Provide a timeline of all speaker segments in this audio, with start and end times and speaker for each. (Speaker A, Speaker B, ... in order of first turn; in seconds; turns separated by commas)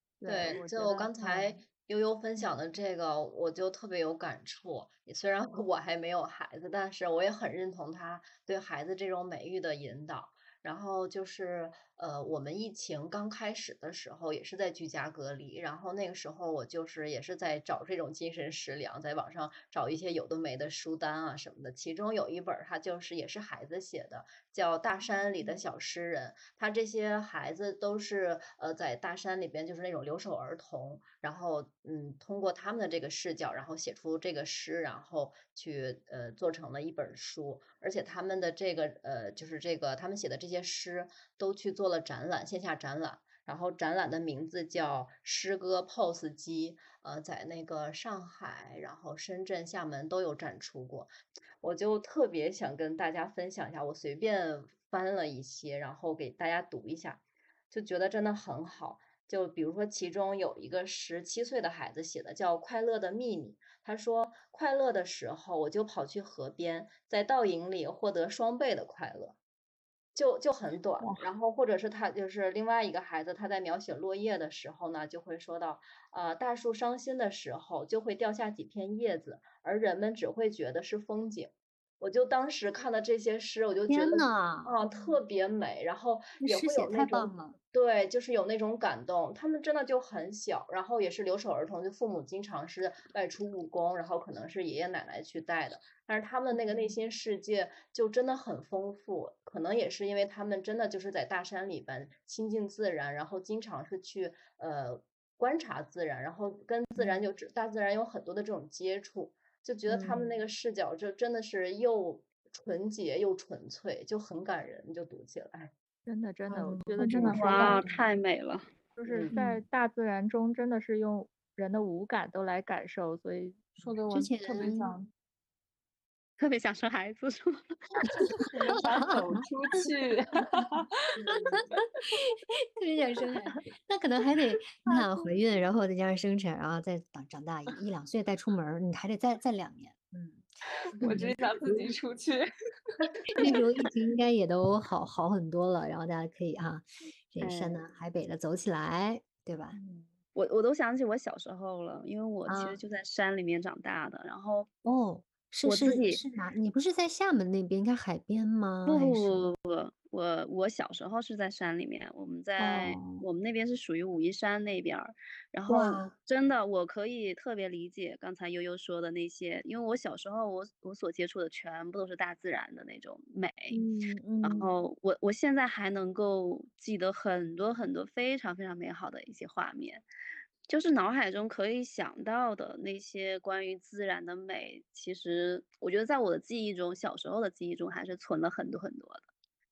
Speaker A: 0.2-1.3, Speaker B: 0.3-69.4, Speaker B: 70.2-115.7, Speaker C: 71.0-71.3, Speaker D: 83.9-84.8, Speaker D: 86.4-87.6, Speaker D: 109.9-110.3, Speaker A: 116.1-117.8, Speaker D: 116.5-117.6, Speaker C: 117.0-118.0, Speaker E: 117.3-118.7, Speaker A: 119.0-123.8, Speaker B: 119.1-119.3, Speaker D: 119.3-119.6, Speaker C: 123.8-125.1, Speaker D: 124.1-125.0, Speaker E: 126.4-129.0, Speaker C: 128.5-130.9, Speaker D: 128.9-129.4, Speaker D: 132.8-140.5, Speaker C: 140.8-143.6, Speaker D: 141.0-141.4, Speaker D: 143.4-149.8, Speaker E: 147.4-147.8, Speaker E: 150.3-154.7, Speaker D: 152.5-152.8, Speaker D: 154.8-159.4, Speaker E: 155.7-156.2, Speaker E: 158.9-173.8, Speaker D: 162.6-163.2, Speaker D: 165.7-166.1, Speaker D: 173.7-174.7, Speaker E: 174.4-180.1, Speaker E: 180.7-189.3